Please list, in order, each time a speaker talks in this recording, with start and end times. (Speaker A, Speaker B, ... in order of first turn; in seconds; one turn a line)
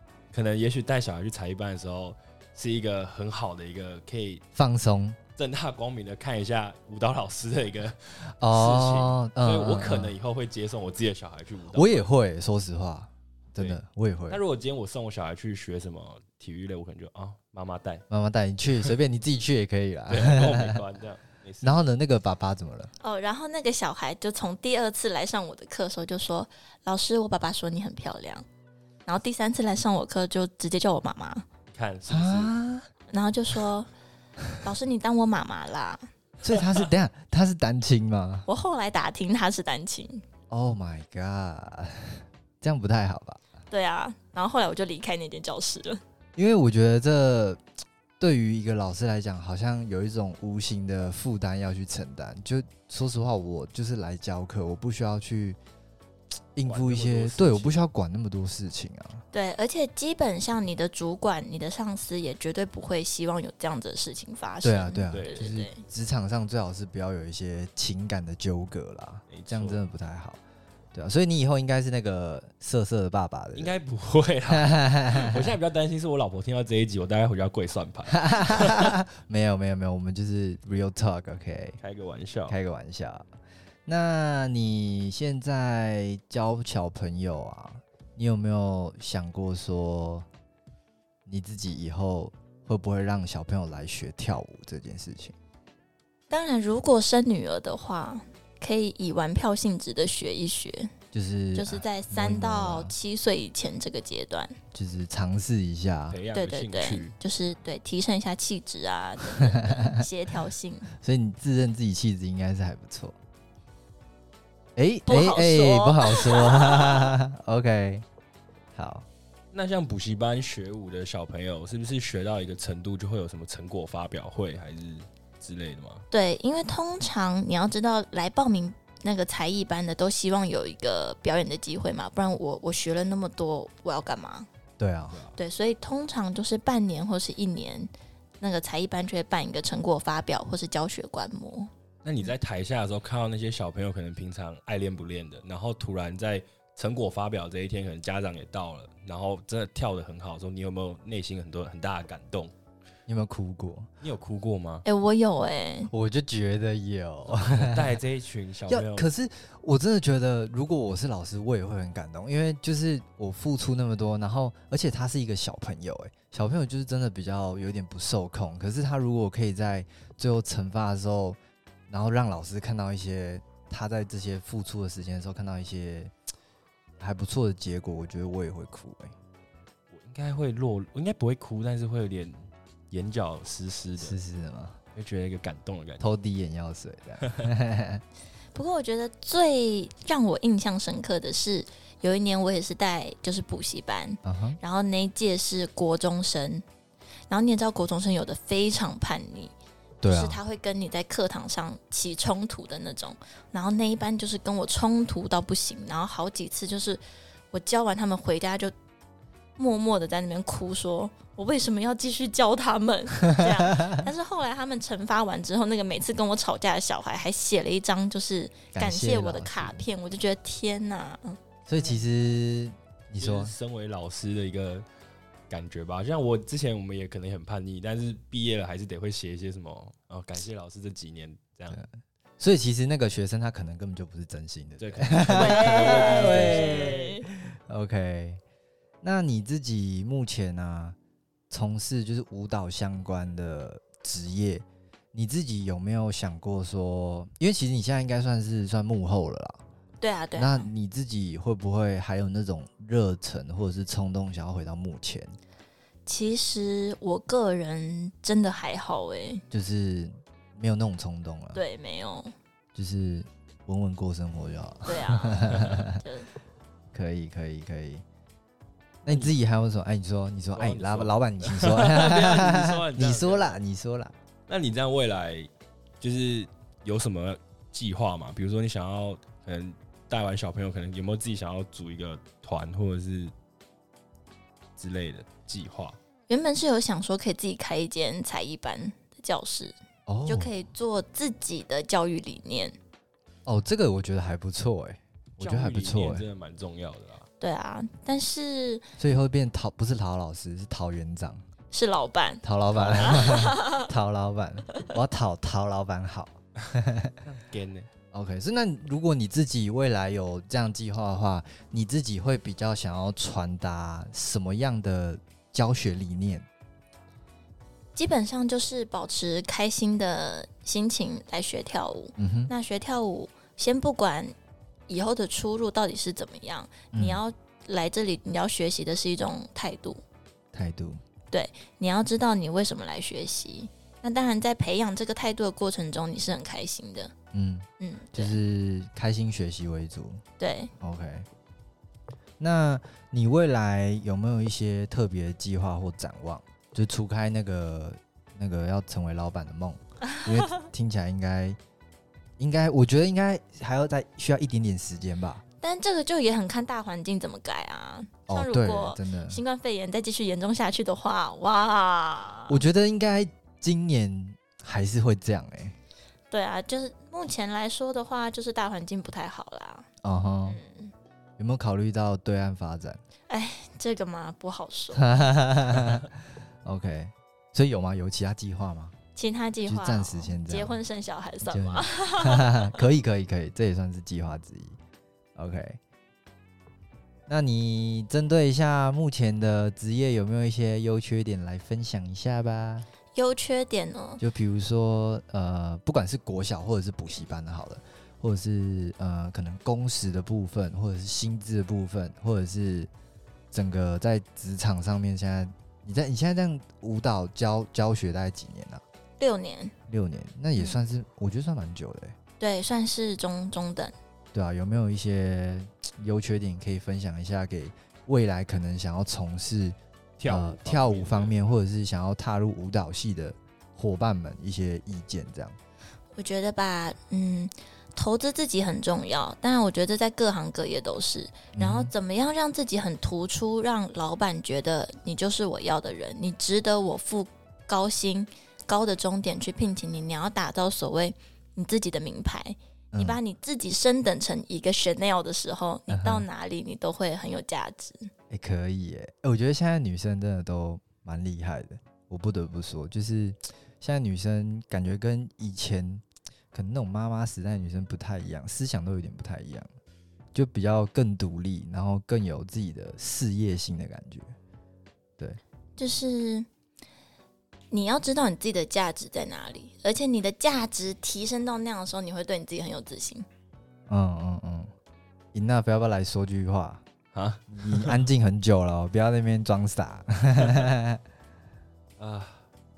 Speaker A: 0.3-4.4
Speaker B: 4.5-5.2
Speaker A: 5.4-12.1
Speaker B: 8.3-10.2
Speaker B: 11.7-14.4
Speaker A: 13.6-18.1
Speaker B: 18.1-20.8
Speaker A: 20.1-21.9
Speaker B: 21.6-22.9
Speaker C: 23.0-28.4
Speaker C: 29.1-31.4
Speaker A: 31.7-32.5
Speaker B: 32.1-32.9
Speaker C: 33.1-33.9
Speaker C: 34.6-36.0
Speaker B: 36.4-38.5
Speaker A: 36.5-36.9
Speaker C: 38.5-40.2
Speaker B: 40.5-43.4
Speaker C: 43.7-46.0
Speaker B: 46.4-47.6
Speaker B: 48.2-55.6
Speaker B: 56.6-59.2
Speaker A: 56.7-57.8
Speaker C: 59.3-65.8
Speaker B: 64.6-70.4
Speaker A: 65.1-65.5
Speaker A: 69.3-69.8
Speaker B: 70.9-73.7
Speaker A: 73.6-79.0
Speaker B: 74.5-75.5
Speaker B: 78.1-81.8
Speaker A: 81.8-82.6
Speaker B: 82.5-83.3
Speaker B: 83.9-90.3
Speaker B: 91.3-95.3
Speaker C: 96.3-100.9
Speaker B: 101.1-103.0
Speaker C: 101.5-104.6
Speaker B: 104.7-106.2
Speaker A: 106.1-107.2
Speaker C: 106.3-110.9
Speaker B: 109.4-110.0
Speaker B: 111.0-113.2
Speaker B: 114.8-118.0
Speaker C: 115.1-117.1
Speaker B: 118.8-119.1
Speaker A: 119.5-126.0
Speaker C: 126.1-134.5
Speaker B: 134.8-135.2
Speaker C: 135.4-141.7
Speaker A: 142.0-152.5
Speaker B: 153.1-153.9
Speaker A: 154.0-154.8
Speaker C: 154.8-155.9
Speaker B: 155.9-158.0
Speaker A: 157.3-159.1
Speaker B: 158.7-176.1
Speaker B: 177.0-179.2
Speaker A: 179.9-184.2
Speaker B: 184.0-184.8
Speaker A: 185.0-186.0
Speaker B: 186.0-188.0
Speaker A: 187.2-187.5
Speaker C: 188.6-196.7
Speaker B: 194.2-194.6
Speaker C: 197.3-199.5
Speaker B: 200.0-200.4
Speaker C: 200.1-207.0
Speaker C: 207.5-208.7
Speaker C: 209.6-221.4
Speaker B: 213.4-214.0
Speaker B: 218.7-219.9
Speaker B: 221.7-223.5
Speaker A: 223.2-224.9
Speaker A: 225.5-231.8
Speaker B: 231.7-238.4
Speaker A: 234.8-237.2
Speaker C: 235.3-237.3
Speaker B: 239.0-241.0
Speaker B: 241.5-249.6
Speaker C: 250.0-250.7
Speaker B: 250.4-255.4
Speaker C: 256.1-259.4
Speaker B: 259.5-261.6
Speaker C: 261.5-262.3
Speaker B: 262.8-266.0
Speaker C: 264.9-266.3
Speaker B: 266.9-268.0
Speaker B: 269.1-274.1
Speaker A: 269.1-269.3
Speaker A: 270.5-273.5
Speaker A: 274.5-275.5
Speaker A: 276.0-283.3
Speaker A: 284.8-286.0
Speaker C: 286.3-292.8
Speaker B: 290.1-290.5
Speaker B: 293.5-296.3
Speaker A: 295.4-297.3
Speaker C: 297.4-298.9
Speaker B: 299.0-301.4
Speaker C: 301.7-303.9
Speaker B: 302.4-307.2
Speaker A: 302.7-303.4
Speaker A: 307.2-307.9
Speaker B: 308.1-316.5
Speaker C: 318.0-324.3
Speaker B: 322.2-322.5
Speaker C: 324.9-330.0
Speaker B: 326.9-327.2
Speaker B: 330.5-331.0
Speaker C: 331.3-337.1
Speaker B: 337.3-340.2
Speaker C: 337.8-338.4
Speaker C: 340.4-340.7
Speaker B: 340.8-341.3
Speaker B: 342.4-351.6
Speaker C: 350.1-350.6
Speaker B: 352.4-355.4
Speaker C: 355.6-362.6
Speaker B: 358.3-359.4
Speaker B: 362.5-365.8
Speaker C: 366.3-369.9
Speaker B: 370.0-370.6
Speaker C: 370.5-370.9
Speaker B: 371.4-373.0
Speaker C: 373.3-375.4
Speaker B: 374.9-376.1
Speaker B: 376.6-378.9
Speaker C: 379.2-382.8
Speaker B: 379.7-380.8
Speaker B: 381.5-384.8
Speaker B: 385.4-385.8
Speaker B: 387.3-392.9
Speaker C: 393.1-394.2
Speaker B: 394.2-402.9
Speaker B: 403.5-408.8
Speaker C: 409.2-409.7
Speaker B: 409.9-412.2
Speaker C: 412.4-413.9
Speaker B: 414.3-425.6
Speaker A: 420.2-421.4
Speaker C: 426.2-448.1
Speaker B: 431.6-431.9
Speaker B: 442.9-443.2
Speaker B: 445.9-446.3
Speaker B: 448.3-459.7
Speaker B: 460.3-464.3
Speaker C: 465.8-466.5
Speaker C: 467.7-473.3
Speaker B: 473.9-474.7
Speaker B: 475.3-476.8
Speaker A: 477.1-478.0
Speaker B: 477.5-481.0
Speaker A: 482.0-482.4